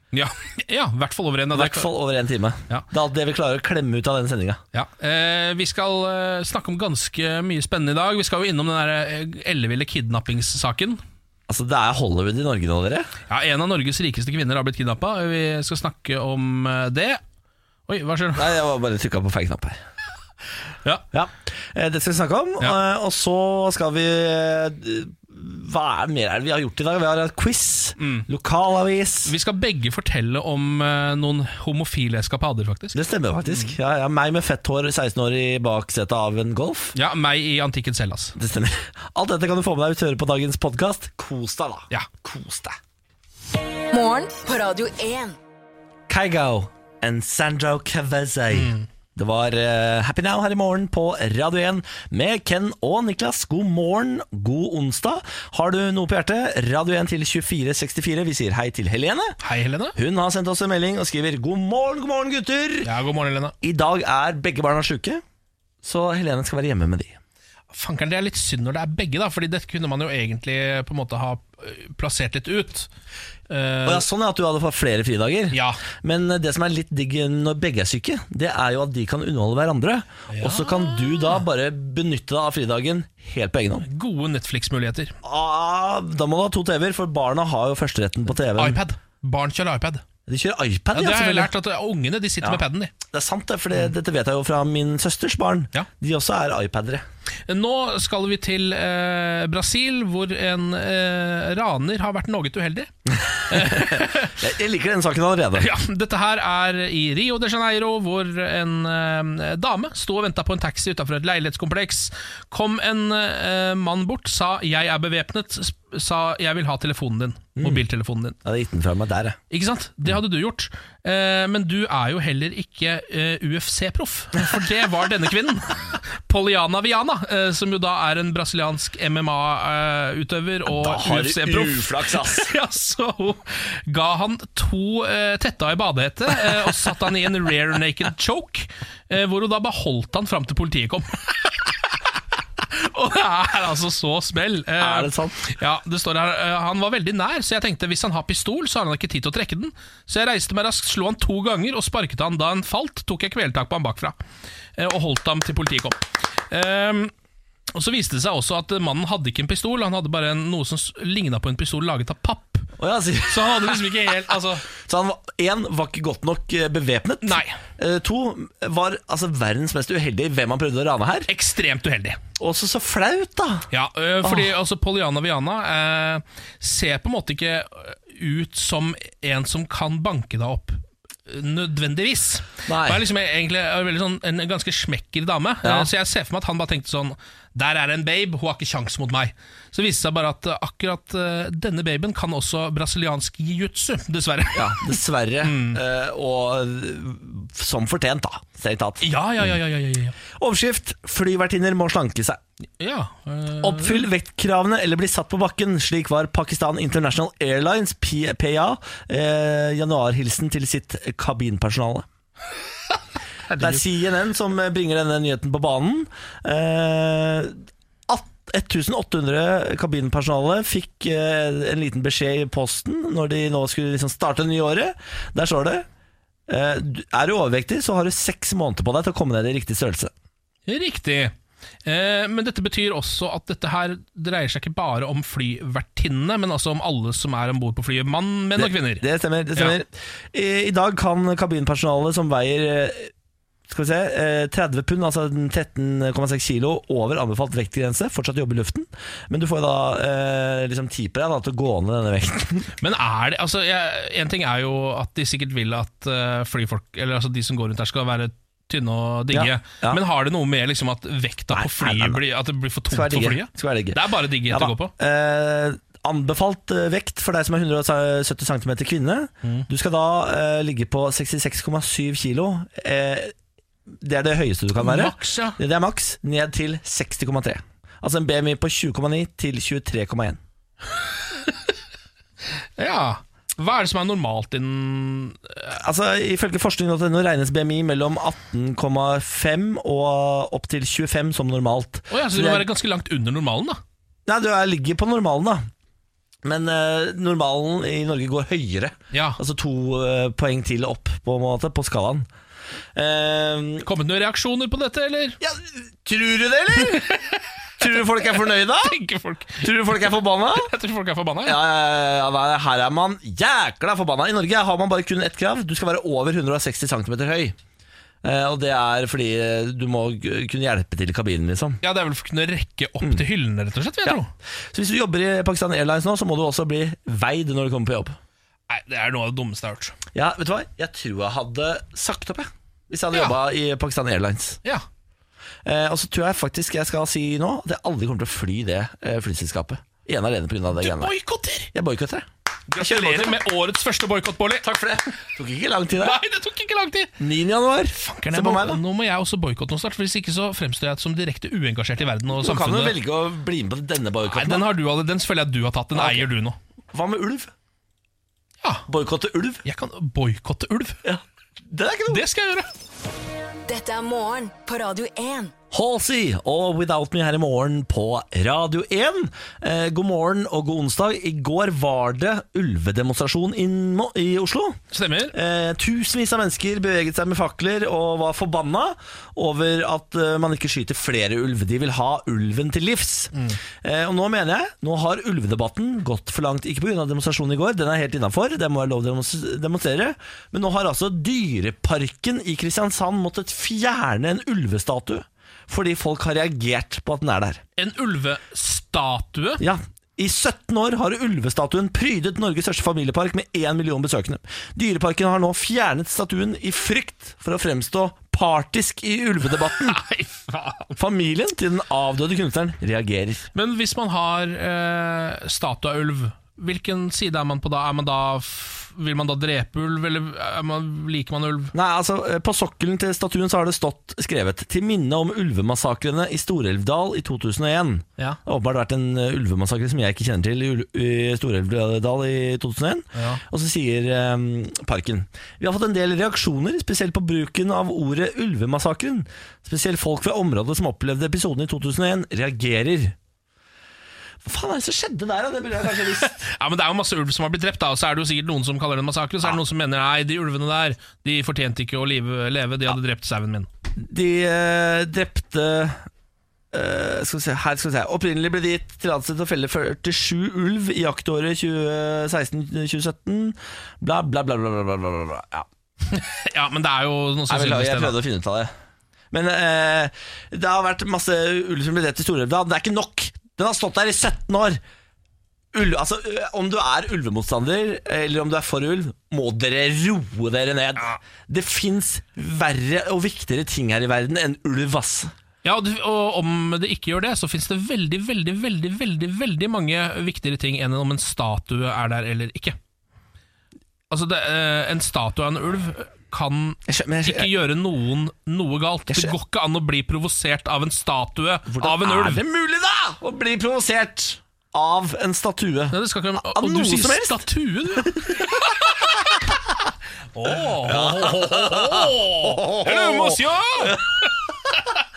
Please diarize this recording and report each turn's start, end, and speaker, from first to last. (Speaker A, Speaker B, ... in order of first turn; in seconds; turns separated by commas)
Speaker A: 0.1-1.9, Speaker B: 1.5-4.6, Speaker A: 4.7-11.0, Speaker B: 11.5-13.1, Speaker A: 13.3-17.2, Speaker A: 17.9-18.5, Speaker B: 18.4-19.8, Speaker B: 21.1-29.3, Speaker A: 28.0-28.2, Speaker A: 29.2-33.0, Speaker B: 32.9-37.0, Speaker A: 36.9-38.3, Speaker B: 38.4-42.8, Speaker C: 43.9-45.4, Speaker B: 46.1-59.4, Speaker A: 48.5-48.9, Speaker A: 59.4-60.0, Speaker B: 60.0-62.9, Speaker A: 62.8-63.5, Speaker B: 63.6-65.2, Speaker B: 65.8-67.2, Speaker A: 67.7-72.9, Speaker A: 73.5-74.0, Speaker B: 73.8-83.9, Speaker A: 75.5-75.8, Speaker A: 80.3-81.4, Speaker A: 83.8-85.1, Speaker B: 85.2-88.8, Speaker A: 88.5-90.0, Speaker B: 90.3-91.5, Speaker A: 90.9-92.9, Speaker B: 92.4-97.0, Speaker A: 97.5-102.9, Speaker B: 103.1-105.7, Speaker A: 103.5-104.3, Speaker A: 105.6-118.4, Speaker B: 117.6-117.8, Speaker B: 118.4-119.4, Speaker A: 119.5-141.7, Speaker B: 130.7-132.5, Speaker A: 142.6-154.1, Speaker B: 144.8-145.4, Speaker A: 154.8-157.1, Speaker A: 157.7-162.7, Speaker B: 162.8-164.1, Speaker A: 163.3-164.7, Speaker B: 164.7-171.3, Speaker A: 167.2-167.6, Speaker A: 171.3-172.2, Speaker B: 172.4-173.7, Speaker A: 173.7-195.8, Speaker B: 174.2-174.5, Speaker B: 182.7-183.0, Speaker B: 185.6-185.9, Speaker B: 194.5-199.5, Speaker A: 199.0-200.2, Speaker B: 200.3-202.4, Speaker A: 202.8-204.1, Speaker B: 203.6-212.1, Speaker A: 213.5-213.8, Speaker B: 213.5-225.8, Speaker B: 226.5-230.1, Speaker A: 230.7-231.3, Speaker A: 231.8-239.0, Speaker B: 238.6-243.1, Speaker B: 243.7-252.7, Speaker A: 252.8-264.9, Speaker B: 259.3-260.0, Speaker B: 261.5-262.2, Speaker B: 262.9-273.3, Speaker B: 274.0-280.4, Speaker A: 274.8-275.6, Speaker A: 282.8-285.7, Speaker B: 285.7-292.6, Speaker A: 292.1-293.8, Speaker B: 294.3-295.7, Speaker B: 296.4-302.3, Speaker A: 299.1-299.4, Speaker B: 302.9-303.9, Speaker A: 303.8-305.4, Speaker B: 305.4-307.1, Speaker A: 306.8-311.6, Speaker B: 307.8-308.9, Speaker B: 309.6-310.7, Speaker B: 311.4-317.6, Speaker B: 318.2-321.8, Speaker A: 321.8-324.3, Speaker B: 324.7-328.1, Speaker A: 328.7-330.0, Speaker B: 330.1-334.6, Speaker B: 335.6-341.1, Speaker A: 340.7-341.7, Speaker B: 341.7-343.4, Speaker A: 342.7-344.6, Speaker B: 344.6-346.2, Speaker A: 345.9-347.2, Speaker B: 347.2-348.8, Speaker A: 347.9-352.9, Speaker B: 352.3-354.6, Speaker A: 354.2-356.6, Speaker B: 355.9-356.3, Speaker B: 356.9-357.5, Speaker B: 358.9-359.6, Speaker A: 359.6-361.0, Speaker B: 361.0-362.2, Speaker A: 362.1-362.7, Speaker C: 363.7-365.5, Speaker B: 365.7-374.8, Speaker A: 374.9-375.3, Speaker B: 375.3-397.6, Speaker A: 397.8-399.6, Speaker B: 399.6-410.0, Speaker A: 409.6-410.9, Speaker B: 410.9-413.5, Speaker A: 413.5-421.7, Speaker B: 421.7-443.1, Speaker A: 433.1-433.4, Speaker B: 444.4-446.4, Speaker A: 446.2-453.7, Speaker B: 454.0-456.1, Speaker B: 456.7-465.7, Speaker A: 466.1-468.2, Speaker B: 467.5-468.7, Speaker B: 469.3-474.8, Speaker B: 475.7-485.3, Speaker A: 485.6-492.8, Speaker A: 494.1-502.4, Speaker B: 496.9-497.5, Speaker B: 499.1-499.3, Speaker B: 501.7-507.4, Speaker A: 505.9-508.8, Speaker B: 507.9-509.5, Speaker A: 510.3-514.8, Speaker B: 510.5-514.2